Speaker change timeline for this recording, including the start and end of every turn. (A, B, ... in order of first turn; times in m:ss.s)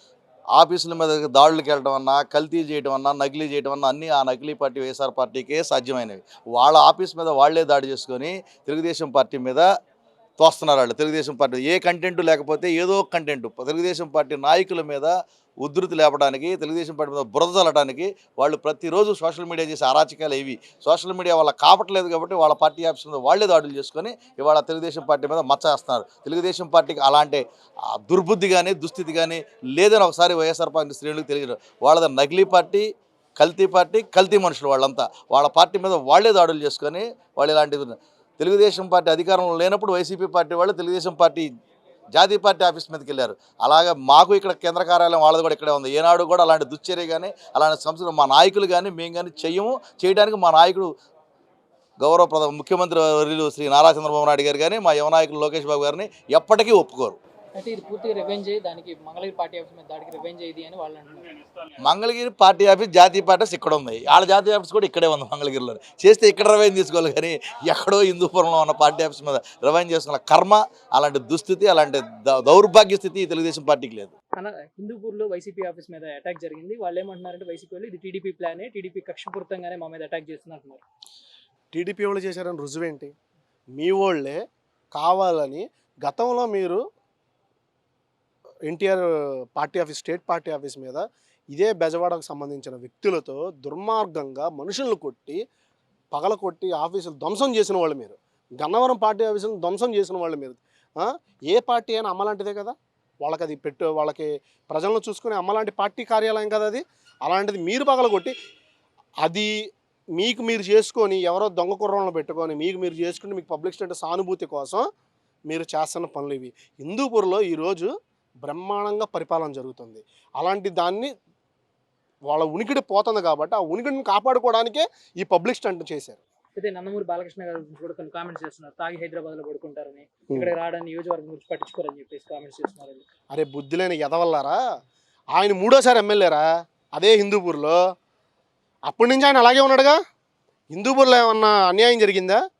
0:00.6-0:09.6 A
0:10.4-0:41.5 A
0:42.1-0:50.9 A
0:52.0-0:57.2 A
0:57.5-1:01.3 B
1:01.8-1:14.1 A
1:14.4-1:20.8 B
1:21.7-1:23.1 C
1:23.8-1:24.4 C
1:24.9-1:26.8 C
1:28.7-1:35.4 C
1:36.1-1:48.3 C
1:49.2-1:49.5 C
1:50.2-1:54.8 C
1:55.5-1:57.9 C
1:58.4-2:01.1 C
2:02.3-2:06.2 C
2:06.6-2:13.0 B
2:13.3-2:14.6 C
2:15.3-2:17.8 C
2:18.9-2:20.0 C
2:20.7-2:22.4 C